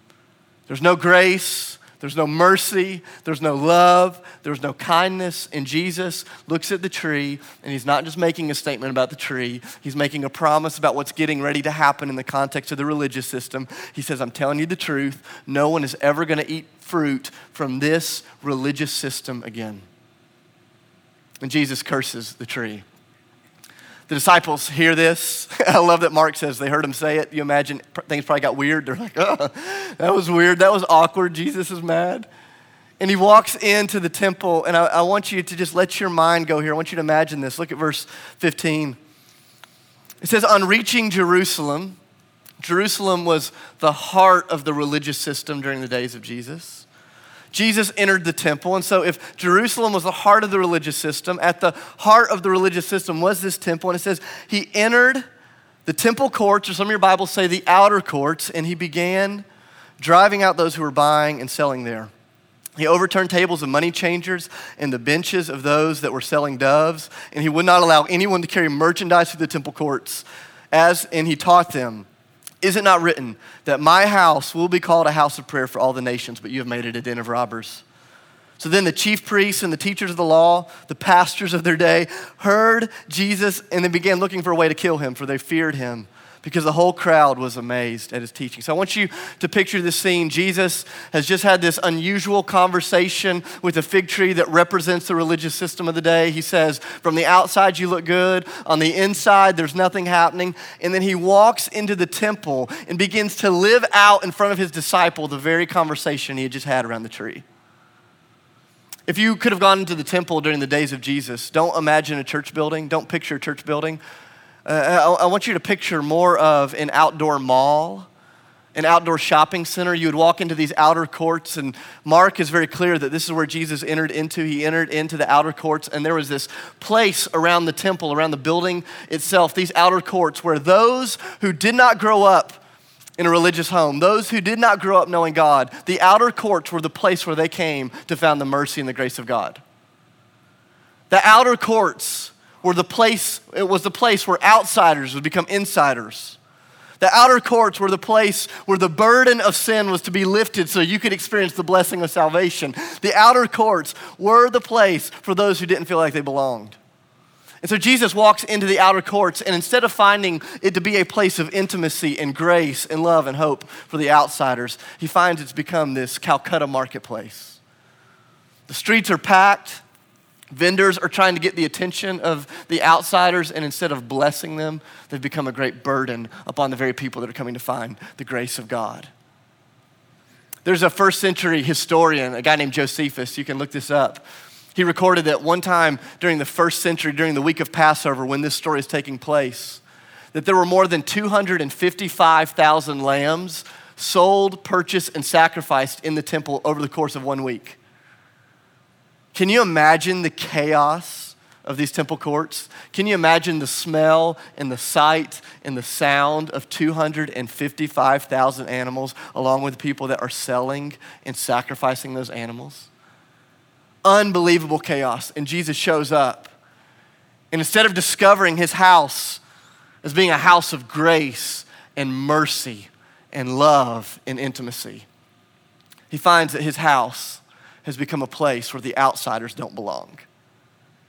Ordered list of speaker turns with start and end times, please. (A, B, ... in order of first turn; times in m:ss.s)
0:00.7-0:19.8 A
0:21.4-0:22.8 A
0:24.1-0:32.3 A
0:33.0-0:39.0 A
0:40.2-0:42.0 A
0:42.6-0:46.8 A
0:47.5-0:55.2 A
0:55.8-0:59.4 A
1:00.0-1:02.1 A
1:02.8-1:12.1 A
1:12.6-1:17.8 A
1:18.6-1:47.4 A
1:49.1-1:54.0 A
1:54.6-1:58.1 A
1:58.7-2:12.6 A
2:13.2-2:19.6 A
2:21.1-2:26.4 A
2:27.0-2:36.8 A
2:37.6-2:47.6 A
2:48.7-2:49.8 A
2:50.5-2:59.1 A
3:00.6-3:09.8 A
3:10.3-3:17.8 A
3:19.3-3:32.9 A
3:34.0-3:36.5 A
3:37.5-3:39.4 A
3:40.0-3:45.0 A
3:46.1-3:50.2 A